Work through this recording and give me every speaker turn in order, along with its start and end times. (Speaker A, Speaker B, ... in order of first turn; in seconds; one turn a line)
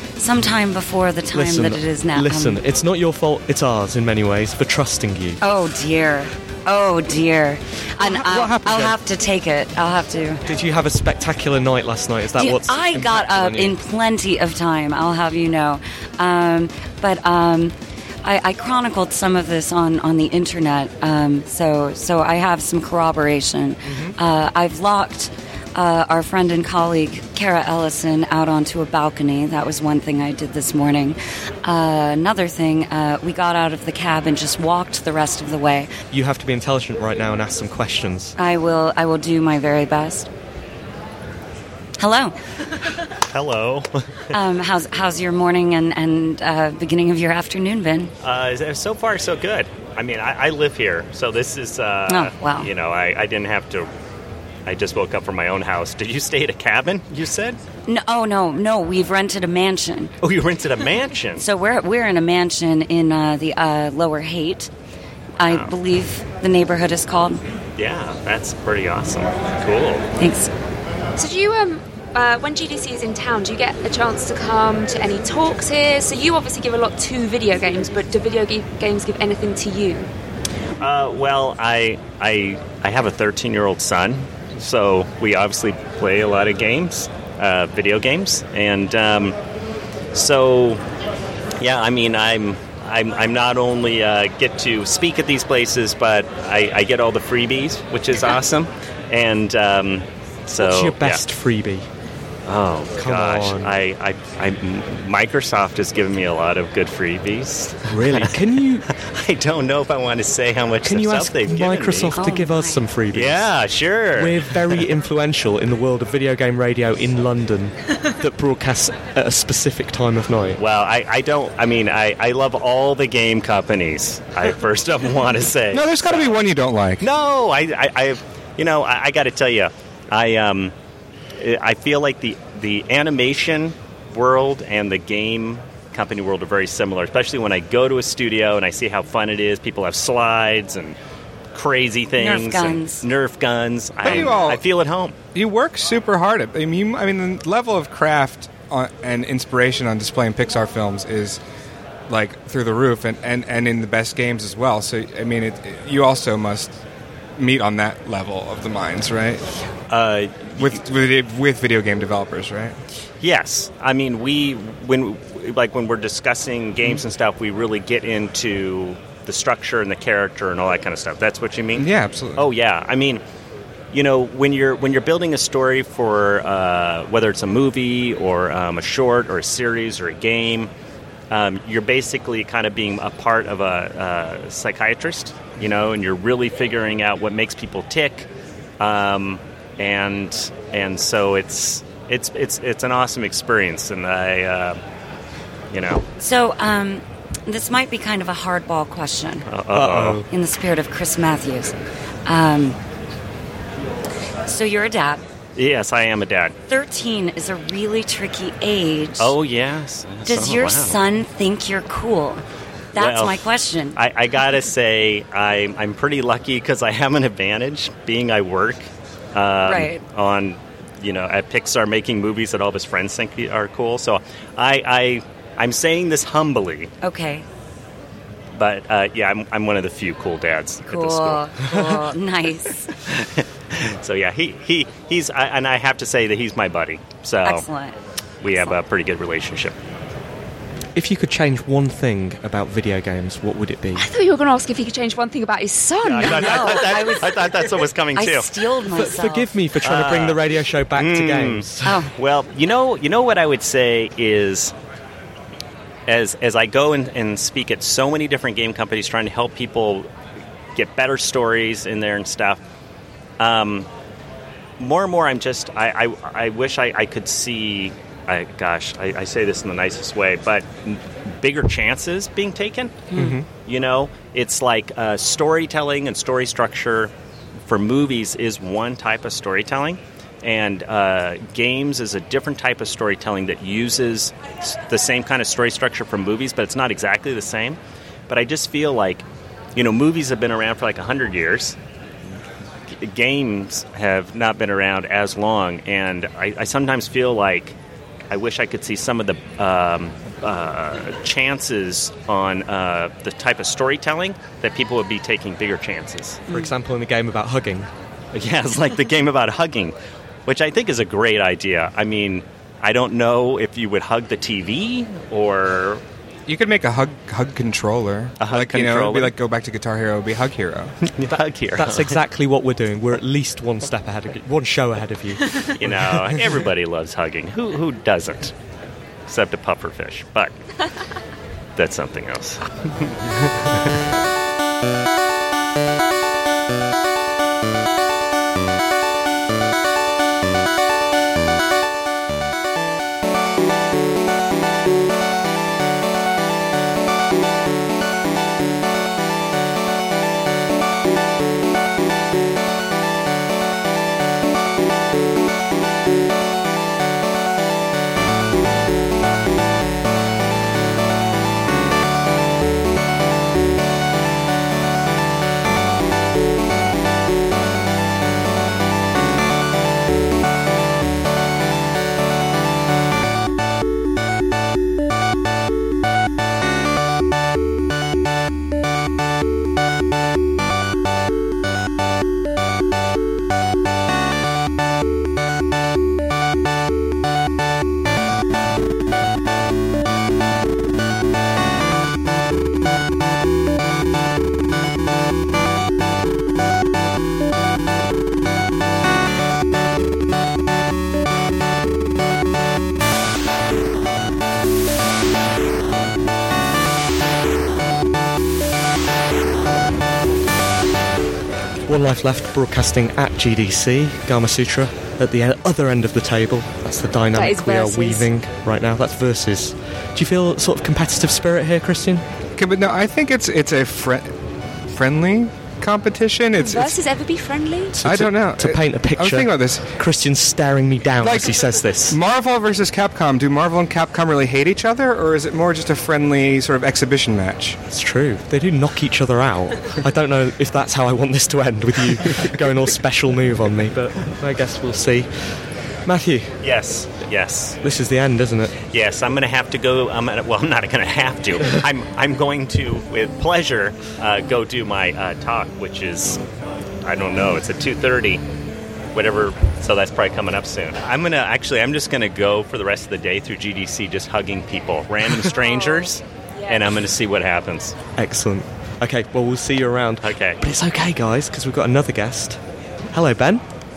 Speaker A: 0.2-2.6
Speaker B: 1.3-5.4
Speaker A: 5.4-10.4
Speaker B: 8.0-8.9
Speaker B: 10.4-13.8
Speaker A: 12.4-35.9
Speaker B: 36.1-38.4
Speaker A: 38.4-40.3
Speaker A: 42.0-42.3
Speaker C: 43.3-44.3
Speaker A: 44.3-48.1
Speaker C: 48.2-53.9
Speaker A: 52.1-52.7
Speaker C: 54.6-57.6
Speaker A: 57.9-60.1
Speaker C: 60.2-61.4
Speaker A: 61.4-64.7
Speaker A: 65.4-67.4
Speaker C: 65.5-65.7
Speaker C: 67.8-70.0
Speaker A: 70.2-70.5
Speaker D: 71.2-80.1
Speaker C: 80.8-89.3
Speaker C: 90.1-90.8
Speaker C: 91.6-101.2
Speaker B: 100.6-101.9
Speaker C: 102.5-108.4
Speaker B: 102.9-103.8
Speaker B: 107.9-108.8
Speaker C: 108.9-112.3
Speaker B: 110.8-113.5
Speaker A: 112.1-112.8
Speaker C: 113.1-114.9
Speaker B: 114.1-120.6
Speaker C: 120.6-126.4
Speaker E: 125.7-127.0
Speaker C: 127.0-130.7
Speaker C: 131.3-140.9
Speaker C: 141.5-145.2
Speaker A: 142.2-143.1
Speaker E: 144.0-144.7
Speaker E: 145.3-151.4
Speaker E: 152.1-156.8
Speaker E: 157.4-159.4
Speaker C: 159.9-160.8
Speaker E: 160.6-162.7
Speaker C: 163.2-173.2
Speaker E: 171.8-172.5
Speaker C: 173.9-180.7
Speaker C: 181.3-194.8
Speaker C: 195.7-196.1
Speaker A: 196.2-199.6
Speaker C: 199.5-200.2
Speaker B: 199.7-200.3
Speaker A: 200.3-201.7
Speaker A: 202.2-202.8
Speaker A: 204.5-205.2
Speaker C: 205.5-206.5
Speaker A: 206.7-209.3
Speaker C: 209.2-211.0
Speaker A: 210.2-212.4
Speaker A: 212.9-214.0
Speaker C: 212.9-226.9
Speaker A: 219.6-220.0
Speaker A: 227.0-227.4
Speaker C: 228.5-231.8
Speaker A: 230.8-232.9
Speaker C: 233.7-237.7
Speaker A: 237.4-237.9
Speaker C: 238.4-239.8
Speaker A: 238.5-238.8
Speaker B: 240.9-244.1
Speaker D: 243.9-247.2
Speaker C: 246.0-248.5
Speaker A: 246.2-249.5
Speaker B: 248.9-252.0
Speaker C: 249.8-254.7
Speaker A: 251.8-252.1
Speaker C: 256.1-260.1
Speaker C: 260.7-262.6
Speaker C: 263.4-263.9
Speaker C: 264.8-277.1
Speaker B: 273.1-273.4
Speaker C: 277.7-287.8
Speaker C: 288.3-291.8
Speaker C: 292.9-297.8
Speaker C: 298.3-306.4
Speaker B: 306.5-307.9
Speaker C: 308.3-309.9
Speaker C: 310.5-316.0
Speaker E: 316.5-320.9
Speaker C: 318.4-319.3
Speaker C: 321.1-322.2
Speaker B: 321.2-326.6
Speaker C: 325.6-328.5
Speaker C: 329.3-330.6
Speaker C: 331.8-332.6
Speaker B: 411.9-422.2
Speaker D: 417.3-418.3
Speaker E: 422.6-424.3
Speaker E: 424.9-427.0
Speaker D: 426.6-427.9
Speaker B: 427.9-432.2
Speaker E: 428.0-429.9
Speaker E: 431.2-437.8
Speaker B: 437.9-446.6
Speaker C: 446.6-447.8
Speaker B: 447.8-448.7
Speaker C: 448.8-456.4
Speaker C: 457.0-458.4
Speaker C: 459.1-468.0
Speaker D: 465.6-466.9
Speaker B: 468.1-472.6
Speaker C: 470.2-470.6
Speaker B: 473.1-473.6